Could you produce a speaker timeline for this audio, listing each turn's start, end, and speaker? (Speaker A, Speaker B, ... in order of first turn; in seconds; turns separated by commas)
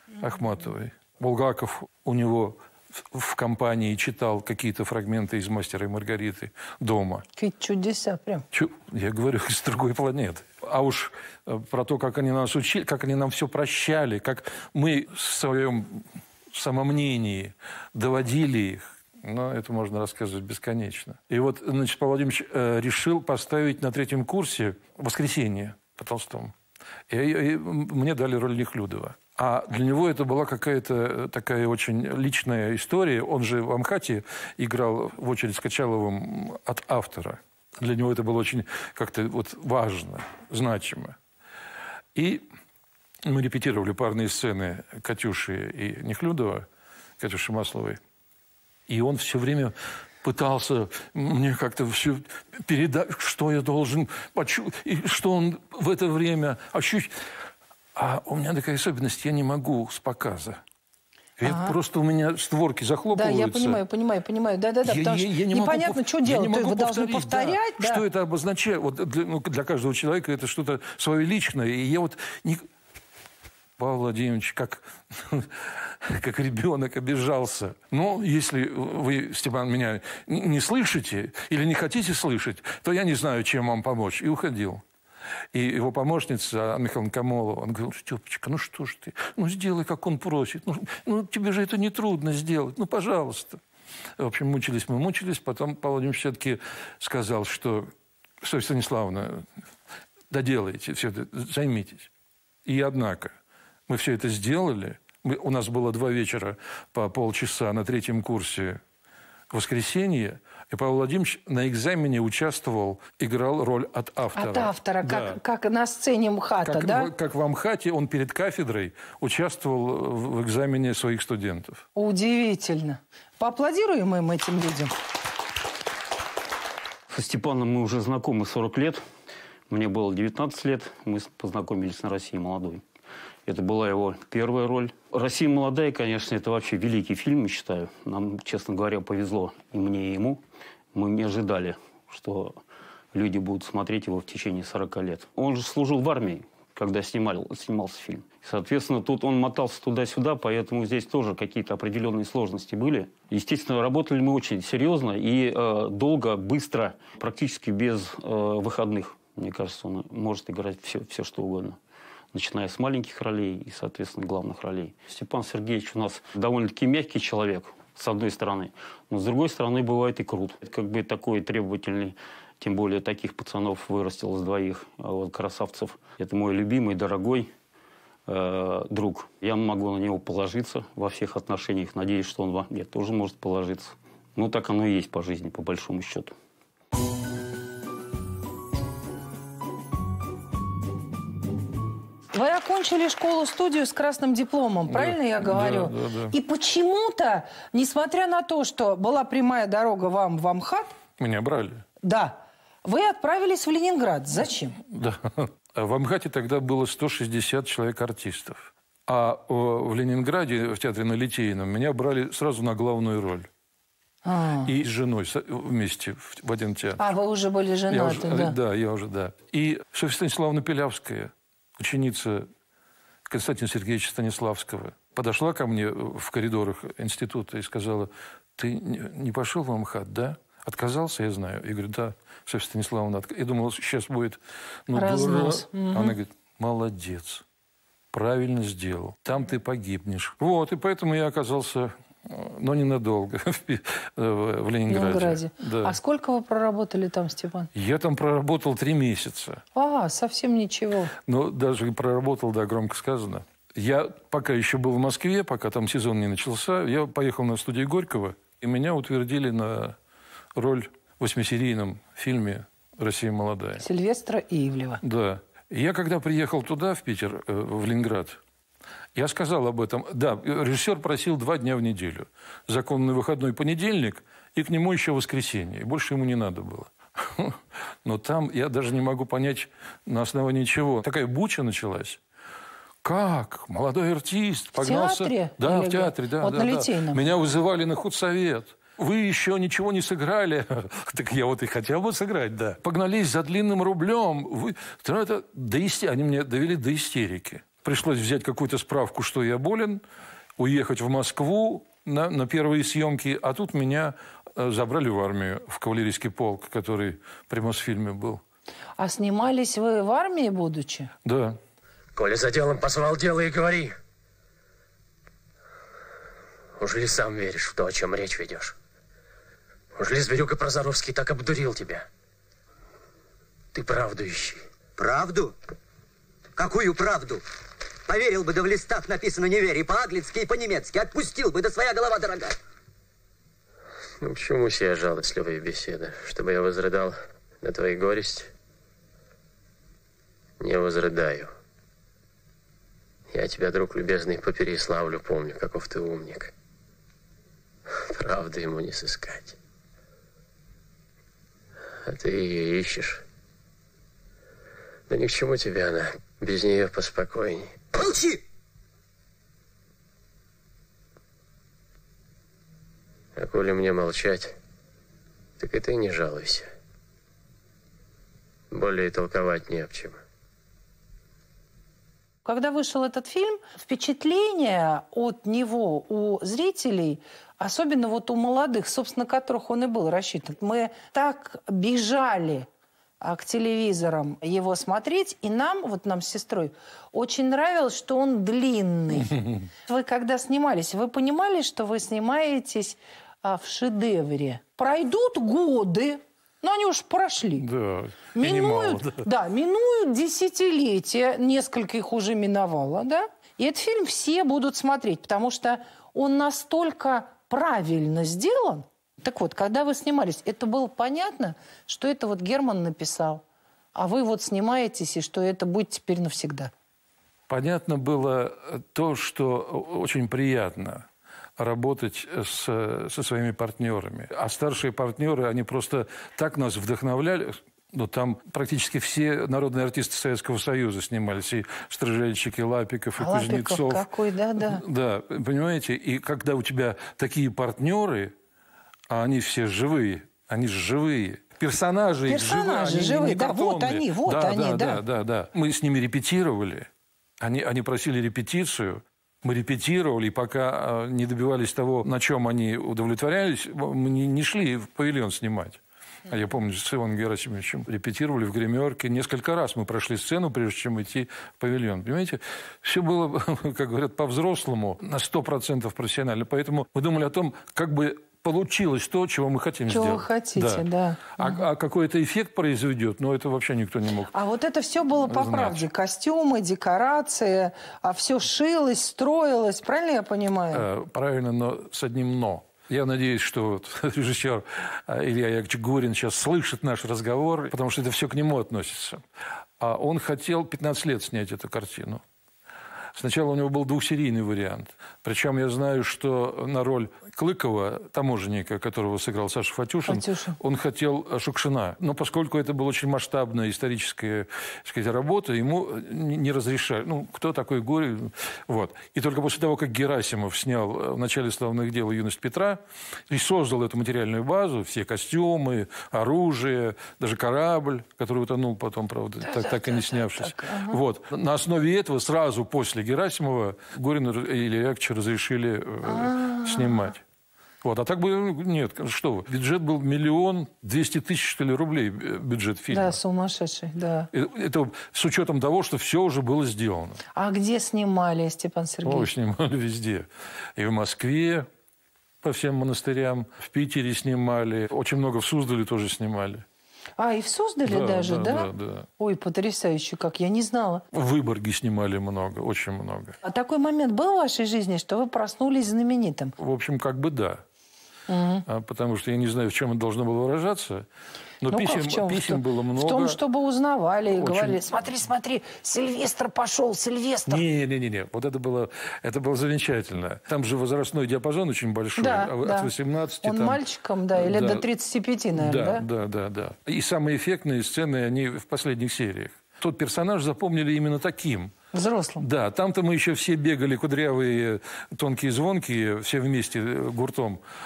Speaker A: 0.2-7.2, Speaker B: 7.3-8.4, Speaker A: 8.5-26.5, Speaker A: 27.1-41.2, Speaker A: 42.1-42.4, Speaker A: 43.2-46.7, Speaker A: 47.2-48.0, Speaker A: 48.9-57.2, Speaker A: 57.9-60.6, Speaker A: 61.4-63.8, Speaker B: 61.4-61.8, Speaker B: 63.1-68.0, Speaker A: 64.8-72.7, Speaker A: 73.8-84.8, Speaker A: 85.5-93.6, Speaker A: 94.2-99.5, Speaker A: 100.3-102.1, Speaker A: 102.6-103.3, Speaker A: 103.9-108.8, Speaker A: 109.5-115.4, Speaker B: 114.3-117.1, Speaker A: 116.6-121.8, Speaker B: 121.9-124.9, Speaker C: 127.1-129.0, Speaker C: 129.7-132.8, Speaker C: 133.4-140.4, Speaker C: 140.9-142.6, Speaker C: 143.1-161.8, Speaker C: 162.3-177.5, Speaker C: 178.3-186.3, Speaker B: 192.3-200.9, Speaker A: 194.9-196.4, Speaker A: 201.2-201.8, Speaker B: 202.0-204.8, Speaker A: 204.8-213.5, Speaker B: 214.2-214.7, Speaker A: 214.6-217.0, Speaker B: 217.0-218.6, Speaker A: 217.9-222.5, Speaker A: 223.3-237.4, Speaker B: 234.9-236.2, Speaker A: 238.1-246.0, Speaker B: 244.9-247.7, Speaker A: 247.7-249.6, Speaker B: 249.7-251.1, Speaker A: 251.2-260.0, Speaker A: 260.5-263.8, Speaker B: 263.8-265.0, Speaker A: 265.0-268.4, Speaker A: 269.1-282.2, Speaker A: 283.0-300.0, Speaker B: 284.8-287.2, Speaker A: 300.6-308.4, Speaker B: 309.0-311.1, Speaker A: 311.2-311.6, Speaker D: 312.1-313.9, Speaker D: 316.8-318.7, Speaker D: 319.9-322.1, Speaker D: 323.7-324.6, Speaker E: 325.0-325.5, Speaker E: 326.6-327.4, Speaker E: 328.1-332.6, Speaker D: 334.2-338.5, Speaker D: 340.6-341.5, Speaker D: 343.3-346.5, Speaker D: 348.0-349.6, Speaker D: 352.0-353.2, Speaker D: 355.1-357.8, Speaker E: 357.9-358.4, Speaker D: 363.4-364.5, Speaker D: 365.6-366.7, Speaker D: 368.7-370.2, Speaker B: 372.4-382.7, Speaker B: 383.2-397.6, Speaker A: 397.6-399.2, Speaker B: 398.4-413.4, Speaker B: 413.9-416.7, Speaker A: 417.5-438.3, Speaker B: 433.2-434.8, Speaker A: 439.1-446.9, Speaker B: 442.3-445.0, Speaker A: 447.4-470.9, Speaker B: 469.9-471.6, Speaker A: 471.4-474.3, Speaker B: 474.3-480.9, Speaker A: 475.2-475.9, Speaker A: 480.7-489.2, Speaker A: 489.8-492.2, Speaker A: 493.1-527.2, Speaker B: 500.1-500.6, Speaker B: 519.4-521.0, Speaker B: 526.0-527.1, Speaker A: 527.8-533.2, Speaker B: 532.9-534.3, Speaker A: 534.3-537.2, Speaker B: 537.4-539.3, Speaker A: 539.0-541.7, Speaker A: 542.4-546.6, Speaker B: 547.2-551.0, Speaker A: 547.9-549.1, Speaker A: 551.1-553.4, Speaker B: 553.4-556.6, Speaker A: 556.6-557.6, Speaker B: 558.3-558.6, Speaker A: 558.6-561.1, Speaker A: 561.6-563.4, Speaker B: 561.7-567.6, Speaker A: 564.3-564.8, Speaker A: 567.5-574.9, Speaker B: 572.2-572.9, Speaker B: 573.4-576.0, Speaker A: 575.5-581.7, Speaker B: 581.9-582.4, Speaker A: 582.4-587.6